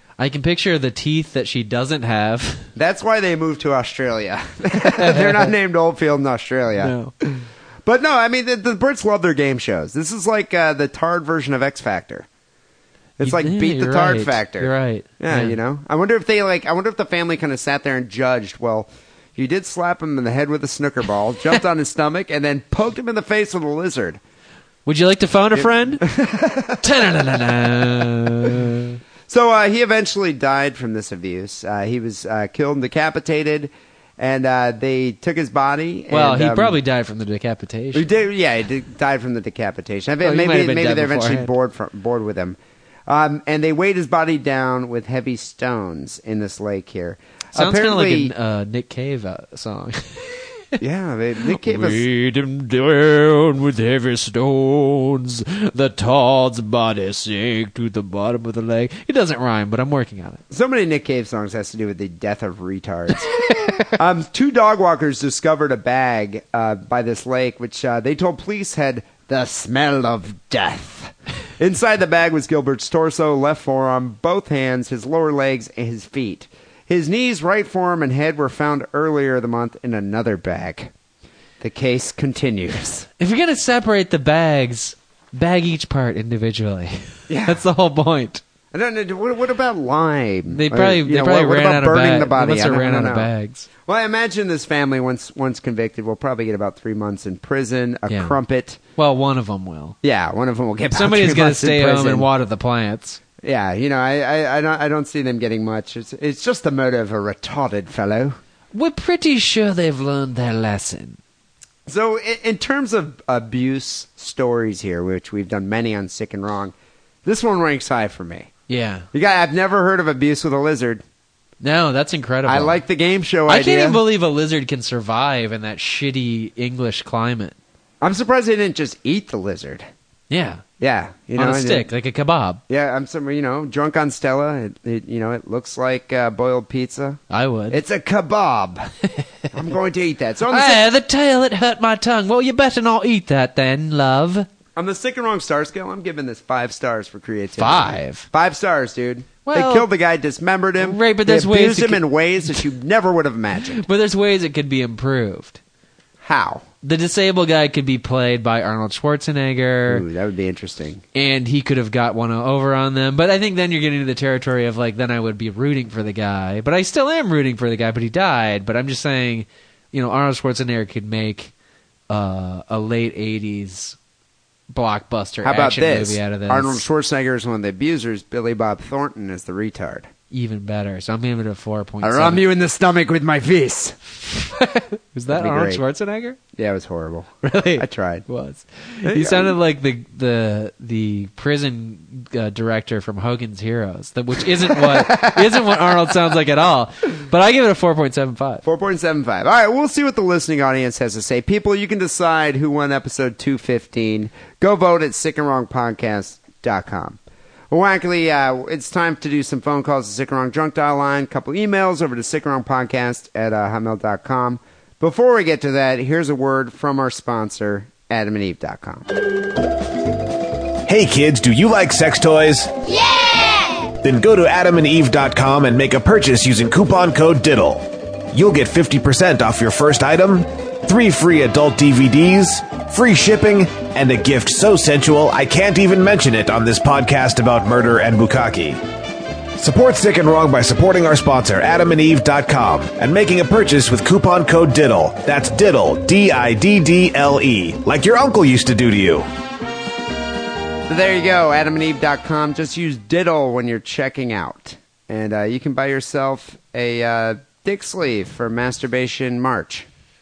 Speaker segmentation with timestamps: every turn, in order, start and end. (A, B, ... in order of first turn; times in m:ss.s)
0:00.2-0:02.7 A
0:02.8-0:12.3 B
0:04.9-0:05.5 A
0:06.8-0:07.1 A
0:13.2-0:24.2 B
0:13.2-0:15.6 A
0:24.9-0:26.0 A
0:25.6-0:26.9 B
0:26.8-0:29.0 A
0:27.6-0:28.0 B
0:29.3-0:36.8 B
0:36.1-0:38.1 A
0:37.9-0:48.3 B
0:40.2-0:41.5 A
0:47.6-0:50.8 A
0:50.8-0:52.0 B
0:51.4-1:00.4 A
1:00.5-1:20.9 B
1:03.5-1:03.9 A
1:21.6-1:23.1 B
1:23.2-1:28.4 A
1:27.3-1:27.6 B
1:28.7-1:33.3 B
1:30.5-1:33.7 A
1:33.9-1:38.8 B
1:38.1-1:38.4 A
1:39.0-1:40.0 A
1:40.0-1:42.3 B
1:40.9-1:43.2 A
1:43.4-1:48.4 B
1:48.7-1:51.2 A
1:51.9-1:56.7 B
1:57.2-1:58.5 B
1:58.7-1:59.1 A
1:59.1-2:01.0 B
2:01.6-2:02.8 A
2:02.4-2:04.0 B
2:03.5-2:07.6 A
2:08.0-2:09.9 B
2:10.3-2:10.6 A
2:10.8-2:11.9 B
2:11.4-2:12.6 A
2:12.7-2:18.9 B
2:17.3-2:17.8 A
2:19.5-2:20.9 B
2:20.5-2:24.5 A
2:24.8-2:33.8 B
2:27.6-2:28.3 A
2:29.4-2:29.9 A
2:30.8-2:32.6 A
2:33.7-2:35.6 A
2:36.2-2:36.7 B
2:36.8-2:40.0 A
2:39.9-2:41.0 B
2:41.1-2:51.5 A
2:52.1-2:54.0 A
2:54.7-2:56.8 A
2:55.4-3:00.1 B
3:00.3-3:02.4 A
3:02.0-3:04.0 B
3:04.2-3:06.4 A
3:05.3-3:05.8 B
3:06.5-3:08.3 B
3:07.4-3:18.6 A
3:09.0-3:09.6 B
3:14.7-3:16.2 B
3:18.6-3:27.2 B
3:27.7-3:39.1 B
3:40.9-3:58.8 C
3:59.6-4:09.3 C
4:10.9-4:19.9 B